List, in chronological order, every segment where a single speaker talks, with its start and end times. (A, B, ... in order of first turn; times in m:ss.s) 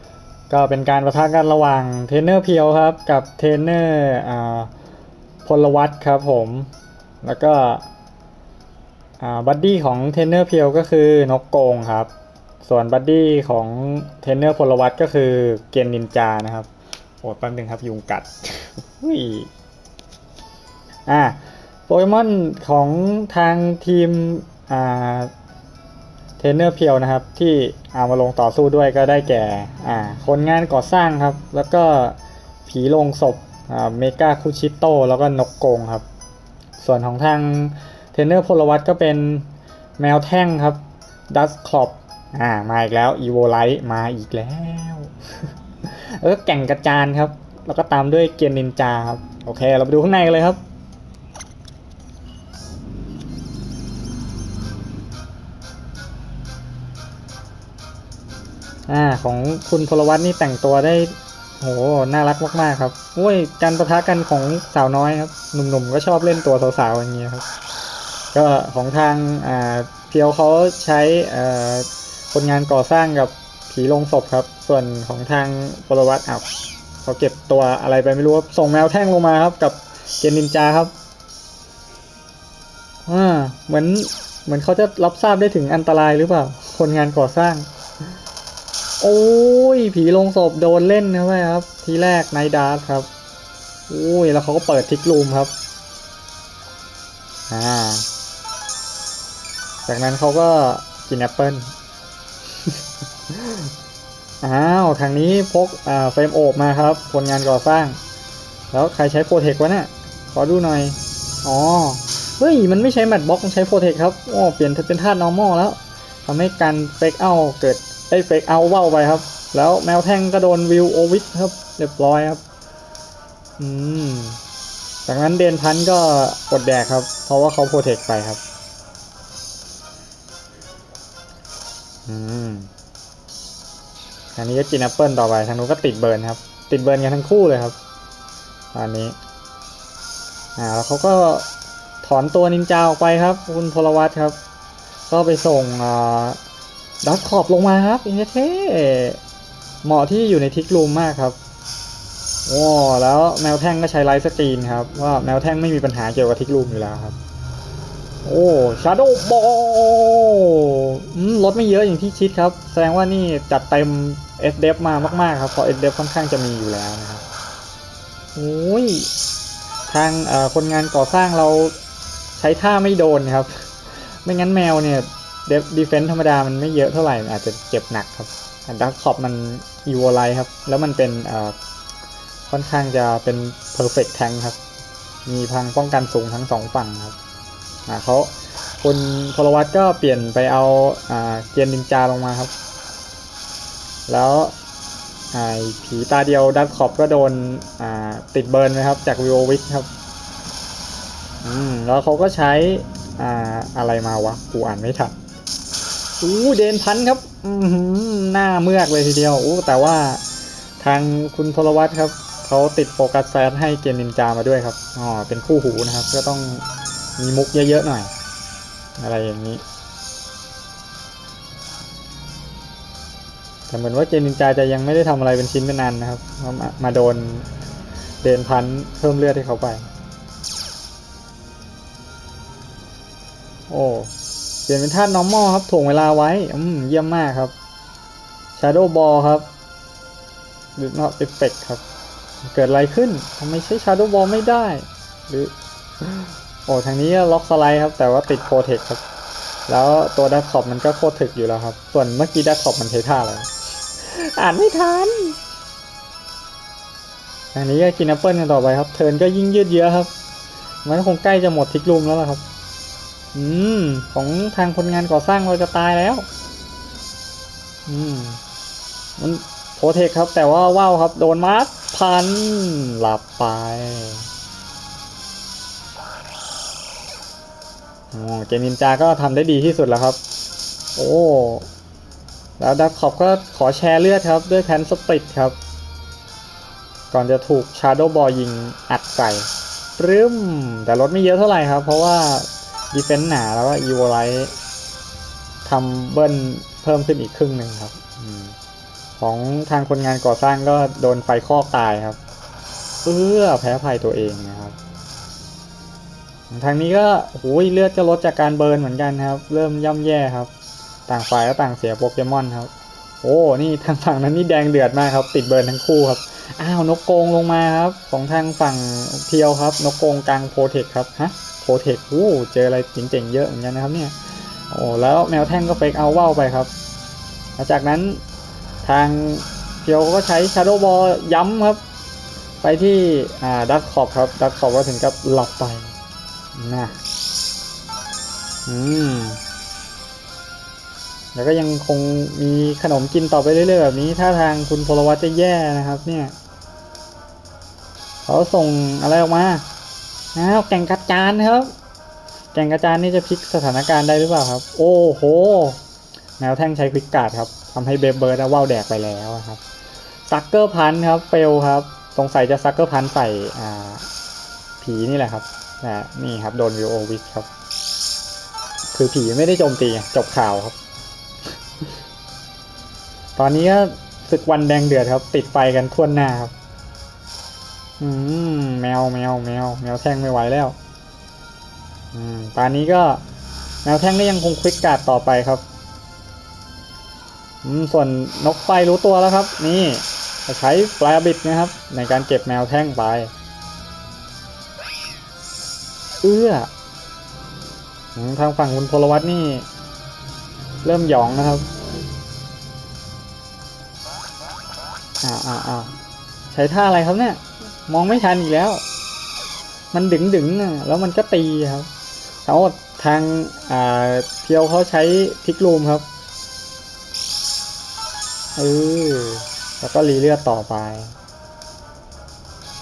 0:00.5-0:04.7 A
0:05.4-0:06.7 A
0:07.2-0:07.9 A
0:09.2-0:12.1 A
0:12.6-0:16.7 A
0:17.2-0:19.5 A
0:21.0-0:25.3 A
0:26.4-0:36.0 A
0:36.8-0:50.6 A
0:58.9-1:07.4 A
1:08.3-1:16.4 A
1:17.0-1:20.9 A
1:23.0-1:27.7 A
1:29.0-1:33.1 A
1:33.9-1:35.5 A
1:37.5-1:38.0 A
1:39.8-1:41.7 A
1:43.3-1:43.7 A
1:44.4-1:48.0 A
1:48.7-2:02.4 A
2:03.6-2:04.4 A
2:05.0-2:08.4 A
2:12.1-2:12.7 A
2:14.3-2:17.8 A
2:18.7-2:19.1 A
2:20.6-2:21.5 A
2:22.0-2:24.4 A
2:25.1-2:26.4 A
2:27.0-2:29.2 A
2:29.8-2:31.4 A
2:32.4-2:37.2 A
2:38.2-2:47.2 A
2:48.4-2:49.1 A
2:49.9-2:51.7 A
2:52.4-3:01.5 A
3:02.5-3:04.6 A
3:05.2-3:07.1 A
3:07.9-3:12.5 A
3:14.1-3:14.5 A
3:15.3-3:19.9 A
3:21.4-3:25.2 A
3:26.2-3:30.2 A
3:30.8-3:36.6 A
3:37.2-3:38.1 A
3:39.0-3:39.6 A
3:43.7-3:47.5 A
3:48.2-3:49.9 A
3:53.7-3:54.1 A
3:54.7-3:57.5 A
3:58.6-3:59.5 A
4:00.8-4:01.8 A
4:02.4-4:09.0 A
4:09.7-4:15.4 A
4:17.5-4:20.1 A
4:20.8-4:22.4 A
4:23.3-4:26.2 A
4:27.8-4:28.4 A
4:29.2-4:34.3 A
4:38.1-4:40.2 A
4:41.0-4:41.7 A
4:42.6-4:45.6 A
4:47.1-4:54.5 A
4:55.6-4:58.5 A
4:59.2-5:02.2 A
5:03.0-5:04.8 A
5:06.5-5:10.5 A
5:11.1-5:12.7 A
5:13.2-5:26.7 A
5:27.6-5:28.2 A
5:28.8-5:31.8 A
5:32.6-5:35.9 A
5:36.5-5:37.0 A
5:38.6-5:39.4 A
5:41.3-5:46.3 A
5:48.2-5:49.6 A
5:50.3-5:51.7 A
5:52.5-5:55.8 A
5:56.4-5:59.6 A
6:00.3-6:04.1 A
6:04.8-6:07.5 A
6:08.9-6:10.8 A
6:13.4-6:16.5 A
6:18.0-6:20.8 A
6:22.1-6:23.2 A
6:23.8-6:25.6 A
6:27.6-6:33.3 A
6:36.2-6:36.7 A
6:38.1-6:39.6 A
6:40.8-6:41.6 A
6:45.2-6:45.9 A
6:46.5-6:48.8 A
6:49.9-6:51.9 A
6:52.4-6:56.1 A
6:58.6-7:01.1 A